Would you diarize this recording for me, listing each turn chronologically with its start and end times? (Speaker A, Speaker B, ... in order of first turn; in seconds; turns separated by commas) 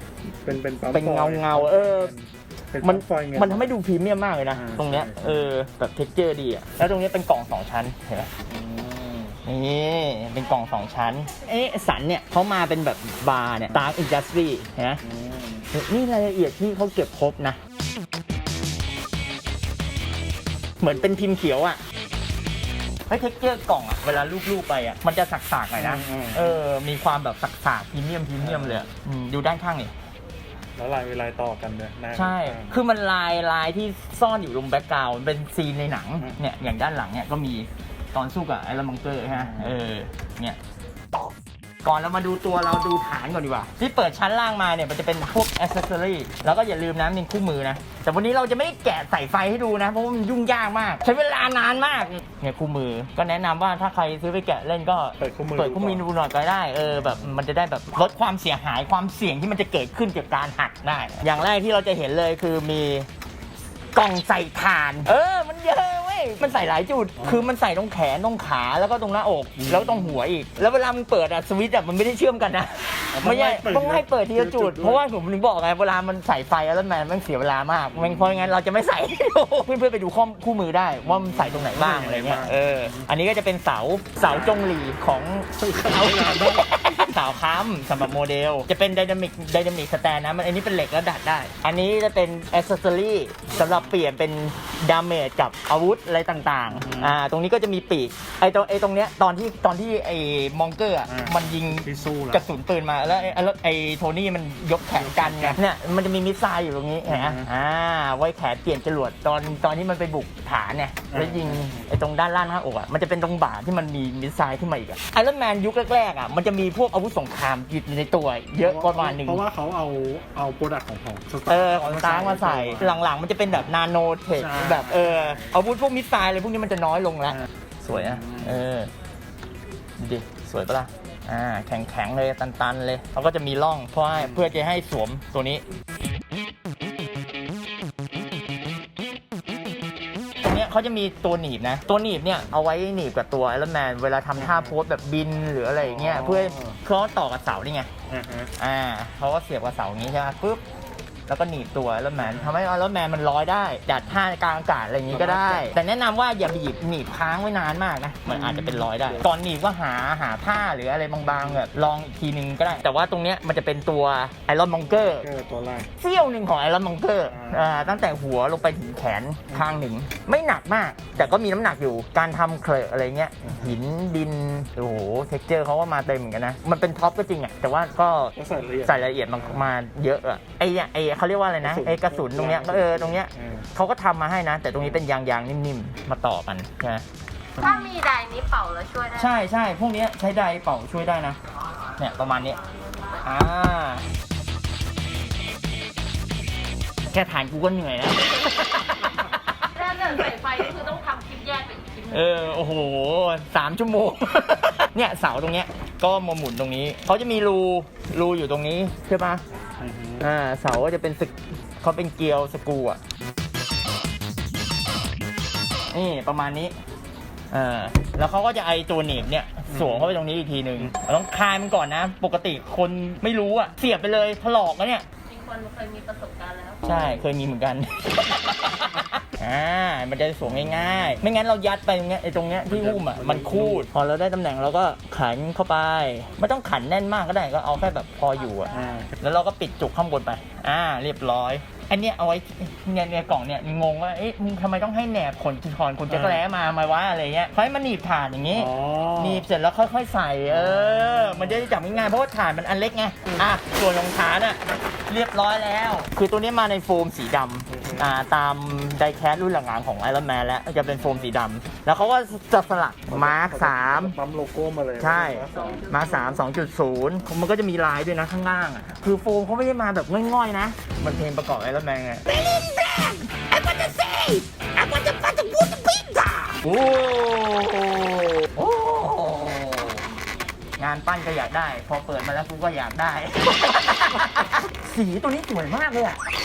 Speaker A: 0.4-3.7, Speaker B: 0.9-2.1, Speaker B: 2.8-8.3, Speaker A: 4.5-5.5, Speaker A: 8.5-9.4, Speaker B: 9.4-15.0, Speaker A: 15.0-15.7, Speaker B: 15.7-17.6, Speaker B: 20.8-21.8, Speaker B: 23.1-29.9, Speaker A: 25.8-26.6, Speaker A: 28.4-28.9, Speaker A: 30.8-32.8, Speaker B: 32.1-40.6, Speaker A: 39.3-39.8, Speaker B: 41.8-63.1, Speaker A: 55.2-56.0, Speaker A: 56.9-57.4, Speaker B: 63.9-119.4, Speaker A: 67.2-67.4, Speaker A: 69.6-70.2, Speaker A: 73.1-75.0, Speaker A: 77.9-78.5, Speaker A: 81.1-83.1, Speaker A: 84.2-84.7, Speaker A: 85.6-86.7, Speaker A: 93.6-93.9, Speaker A: 96.7-97.2, Speaker A: 101.1-102.5, Speaker A: 104.9-105.6, Speaker A: 107.0-107.5, Speaker A: 111.1-111.9, Speaker A: 118.6-123.0, Speaker B: 121.5-128.9, Speaker A: 124.4-125.6, Speaker A: 127.9-128.6, Speaker B: 130.0-135.6, Speaker A: 134.2-134.5, Speaker B: 140.4-147.9, Speaker A: 144.4-144.7, Speaker A: 145.8-146.8, Speaker A: 148.1-148.5, Speaker B: 148.6-150.6, Speaker B: 151.3-165.3, Speaker A: 152.2-152.5, Speaker A: 155.1-155.7, Speaker A: 158.3-159.2, Speaker A: 161.2-161.6, Speaker A: 164.9-165.9, Speaker B: 166.0-187.0, Speaker A: 167.2-167.9, Speaker A: 169.5-169.8, Speaker A: 173.4-173.7, Speaker A: 178.3-179.6, Speaker A: 181.6-183.7, Speaker C: 187.6-189.3, Speaker B: 189.1-191.4, Speaker B: 191.9-192.6, Speaker B: 193.2-194.1, Speaker B: 197.1-199.6, Speaker C: 199.7-202.5, Speaker B: 202.1-209.4, Speaker A: 209.8-210.2, Speaker B: 210.2-213.0, Speaker B: 215.9-216.7, Speaker B: 217.5-225.1, Speaker A: 219.7-220.1, Speaker C: 225.3-226.8, Speaker B: 226.8-264.1, Speaker A: 226.9-227.2, Speaker A: 230.5-230.8, Speaker A: 232.7-233.9, Speaker A: 238.7-239.1, Speaker A: 246.1-246.4, Speaker A: 248.5-249.5, Speaker A: 250.5-251.7, Speaker A: 257.7-258.1, Speaker A: 263.1-265.9, Speaker B: 265.0-280.0, Speaker C: 265.5-266.4, Speaker B: 280.8-286.2